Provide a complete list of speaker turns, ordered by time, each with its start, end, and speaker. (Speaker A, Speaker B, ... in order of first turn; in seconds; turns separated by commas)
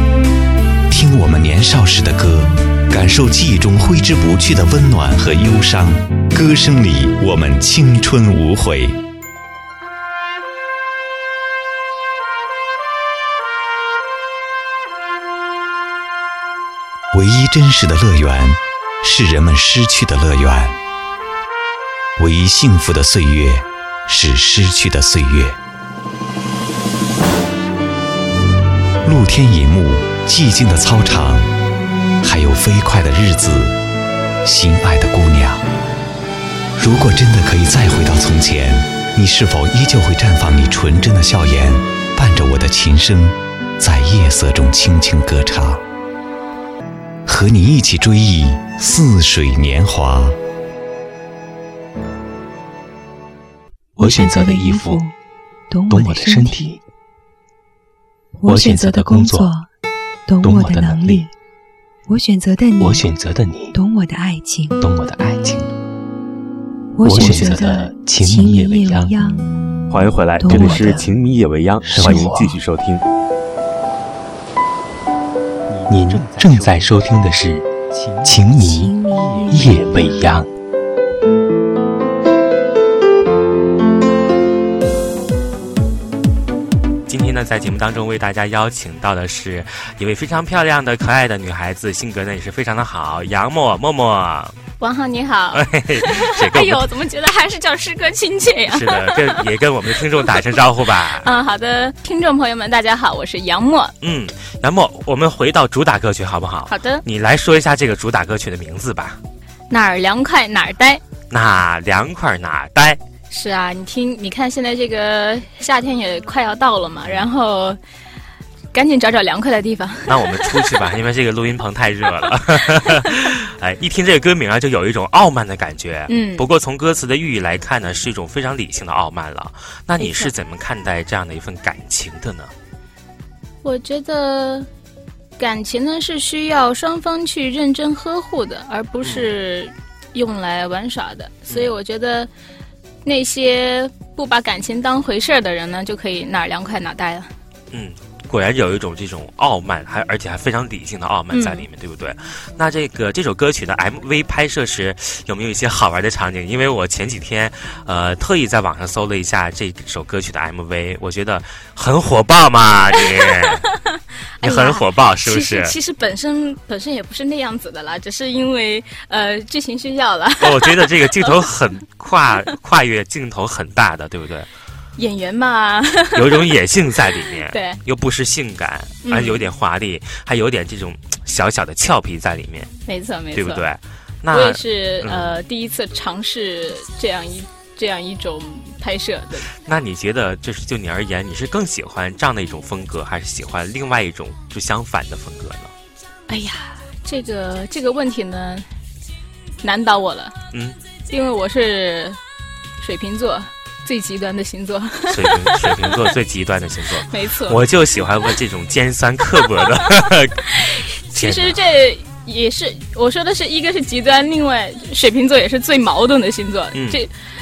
Speaker A: 0.9-9.0, Speaker A: 17.1-20.8, Speaker A: 22.2-25.6, Speaker A: 29.0-31.5, Speaker A: 32.2-33.8, Speaker A: 34.4-35.6, Speaker A: 36.8-45.8, Speaker A: 47.2-50.4, Speaker B: 54.0-55.0, Speaker C: 54.0-55.1, Speaker C: 55.7-56.6, Speaker B: 55.9-56.8, Speaker C: 58.4-59.7, Speaker B: 58.5-59.5, Speaker C: 60.3-61.3, Speaker B: 60.4-61.3, Speaker C: 62.1-63.0, Speaker B: 62.8-63.8, Speaker C: 63.7-64.8, Speaker B: 64.8-65.7, Speaker C: 66.9-69.5, Speaker B: 67.0-69.1, Speaker D: 67.1-67.6, Speaker D: 69.9-73.0, Speaker C: 70.4-71.0, Speaker B: 70.5-71.0, Speaker B: 71.8-72.5, Speaker C: 72.0-72.3, Speaker B: 75.9-80.5, Speaker C: 78.6-80.3, Speaker E: 87.1-94.5, Speaker F: 94.8-99.4, Speaker E: 95.5-96.9, Speaker E: 98.7-101.3, Speaker F: 101.2-103.9, Speaker E: 104.0-109.2, Speaker F: 106.7-107.0, Speaker F: 109.7-111.0, Speaker E: 111.3-113.0, Speaker F: 113.3-117.8, Speaker F: 118.7-120.8, Speaker E: 120.1-132.5, Speaker F: 126.1-126.5, Speaker F: 130.0-130.3, Speaker F: 133.6-134.7, Speaker F: 135.4-142.3, Speaker E: 139.0-139.3, Speaker F: 143.0-147.3, Speaker E: 147.7-163.7, Speaker F: 151.3-151.7, Speaker F: 164.4-171.4, Speaker E: 164.4-165.7, Speaker E: 170.4-174.5, Speaker F: 175.0-176.5, Speaker E: 176.1-182.7, Speaker F: 177.5-177.8, Speaker F: 179.0-179.5, Speaker F: 182.9-183.6, Speaker E: 183.3-185.4, Speaker F: 184.3-189.5, Speaker E: 189.6-195.7, Speaker F: 196.3-198.7, Speaker F: 199.6-200.3, Speaker E: 200.5-200.8, Speaker F: 201.1-202.2, Speaker F: 202.8-206.0, Speaker E: 205.1-210.5, Speaker F: 207.1-207.6, Speaker F: 210.5-217.1, Speaker E: 211.1-211.6, Speaker E: 216.7-217.0